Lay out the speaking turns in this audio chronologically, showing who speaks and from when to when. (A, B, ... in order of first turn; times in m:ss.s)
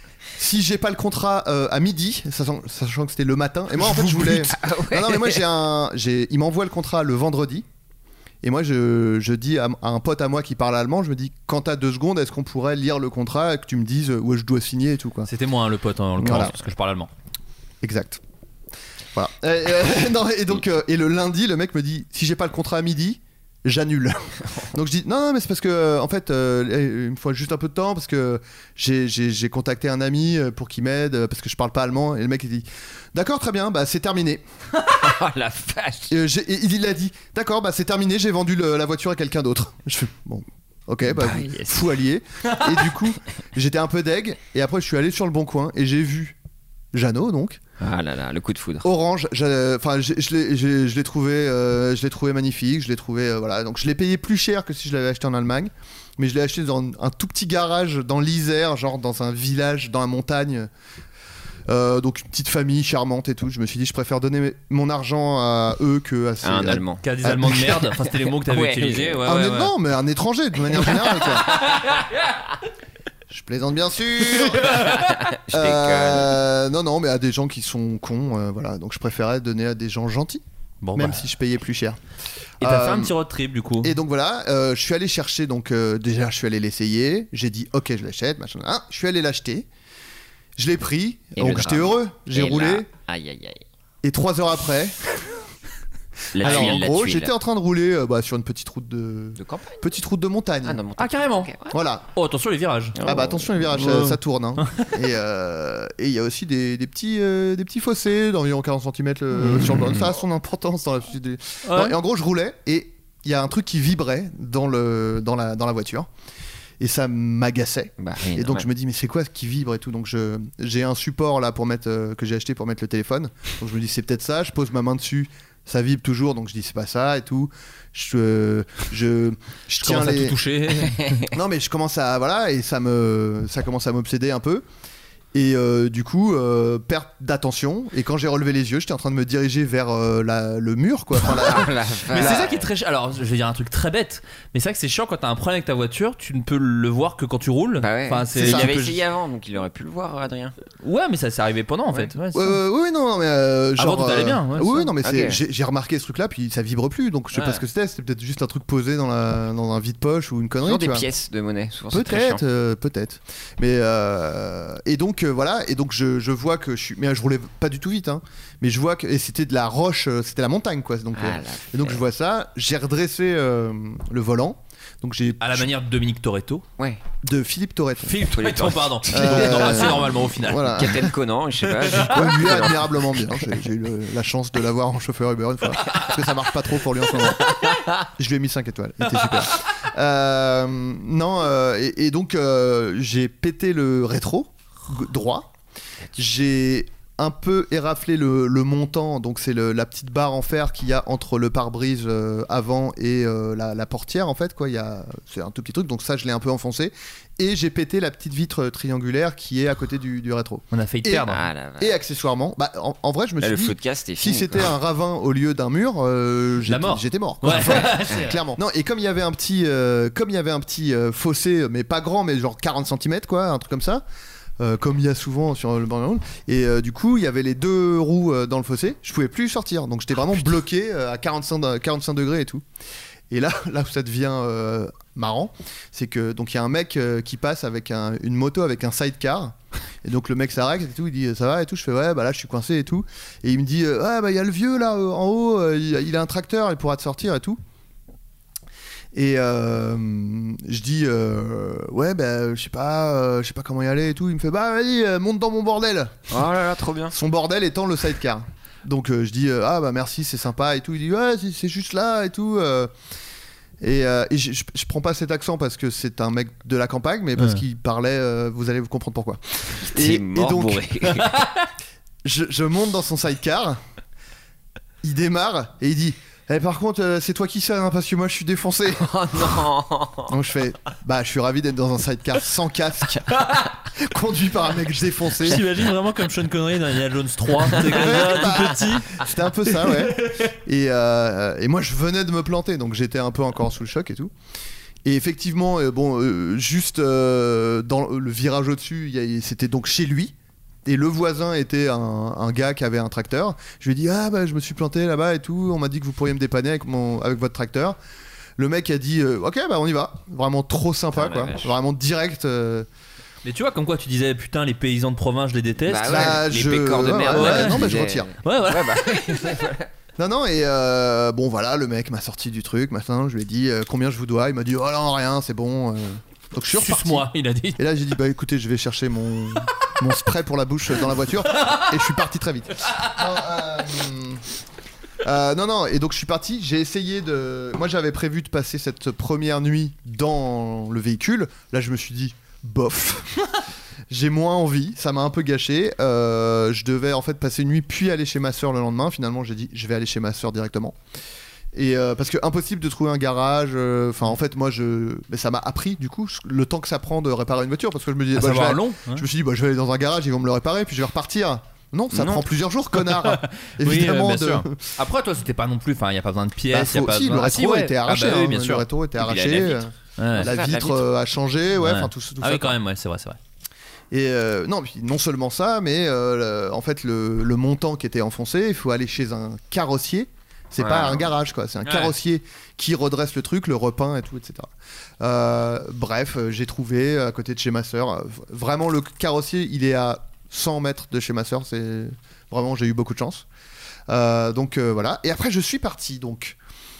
0:00.4-0:07.6 A
0:04.0-0:05.4 B
0:08.4-0:15.3 A
0:15.3-0:17.1 C
0:16.2-0:16.5 A
0:17.8-0:18.2 A
0:19.1-0:34.4 A
0:34.9-0:36.1 B
0:36.1-0:46.4 A
0:41.1-0:41.9 B
0:46.9-0:47.6 A
0:47.8-0:48.9 B
0:48.8-1:00.7 A
1:01.7-1:07.9 A
1:06.4-1:07.0 B
1:07.0-1:09.7 C
1:08.4-1:09.2 B
1:09.2-1:11.5 A
1:11.5-1:12.1 C
1:13.3-1:14.8 A
1:14.7-1:16.4 B
1:14.8-1:15.1 C
1:15.5-1:20.4 A
1:20.8-1:21.2 C
1:20.9-1:22.0 A
1:22.6-1:23.1 A
1:22.6-1:23.9 C
1:23.8-1:29.7 A
1:30.6-1:32.9 A
1:31.4-1:33.6 B
1:34.0-1:35.0 A
1:36.3-1:37.3 B
1:36.4-1:40.8 A
1:39.4-1:39.8 B
1:40.6-1:41.8 B
1:41.0-1:41.5 C
1:41.7-1:42.0 A
1:42.1-1:42.9 C
1:43.0-1:43.5 B
1:43.0-1:56.1 A
1:43.7-1:44.8 C
1:49.5-1:50.0 B
1:51.6-1:52.0 C
1:56.8-2:10.4 A
1:58.0-1:58.6 B
2:09.8-2:11.2 C
2:11.2-2:14.6 A
2:15.3-2:22.5 A
2:21.3-2:22.7 B
2:22.1-2:29.0 C
2:27.8-2:30.6 B
2:28.3-2:28.7 A
2:30.8-2:32.6 C
2:32.3-2:41.0 A
2:33.8-2:34.9 C
2:35.0-2:35.4 B
2:40.6-2:42.4 B
2:41.9-2:55.7 A
2:51.1-2:52.0 B
2:55.4-2:56.6 C
2:57.2-2:58.2 A
2:58.0-3:00.9 C
2:58.3-3:00.1 B
2:59.1-3:01.1 A
3:00.8-3:03.5 B
3:01.8-3:07.5 A
3:07.5-3:07.9 B
3:08.2-3:15.5 A
3:09.1-3:09.3 C
3:16.1-3:31.2 A
3:30.7-3:31.4 C
3:31.3-3:32.0 B
3:31.8-3:44.0 A
3:33.4-3:34.7 B
3:36.6-3:38.4 C
3:37.6-3:38.3 B
3:44.6-3:52.6 A
3:53.3-4:07.6 A
4:09.1-4:16.4 A
4:16.3-4:17.1 B
4:17.1-4:22.9 A
4:23.8-4:31.2 A
4:29.7-4:31.4 B
4:31.3-4:31.6 C
4:32.2-4:33.8 A
4:35.0-4:39.7 A
4:39.0-4:40.3 B
4:40.3-4:43.4 A
4:43.3-4:43.7 C
4:43.9-4:45.6 A
4:45.4-4:49.2 C
4:47.7-4:54.3 A
4:49.8-4:50.5 C
4:55.0-5:00.3 A
5:00.8-5:08.0 A
5:08.6-5:12.9 A
5:11.2-5:11.7 B
5:13.4-5:16.4 C
5:15.9-5:19.9 B
5:16.0-5:18.3 A
5:17.3-5:17.9 C
5:18.4-5:19.0 C
5:20.2-5:34.4 A
5:26.7-5:27.8 C
5:35.2-5:43.5 A
5:44.1-5:51.0 A
5:51.7-6:04.9 A
5:58.3-5:59.2 C
6:02.1-6:02.5 B
6:03.0-6:08.8 C
6:06.7-6:12.8 A
6:09.2-6:11.0 B
6:10.2-6:10.5 C
6:11.8-6:13.4 C
6:14.1-6:33.4 A
6:20.8-6:21.3 B
6:21.8-6:22.1 C
6:34.1-6:36.6 A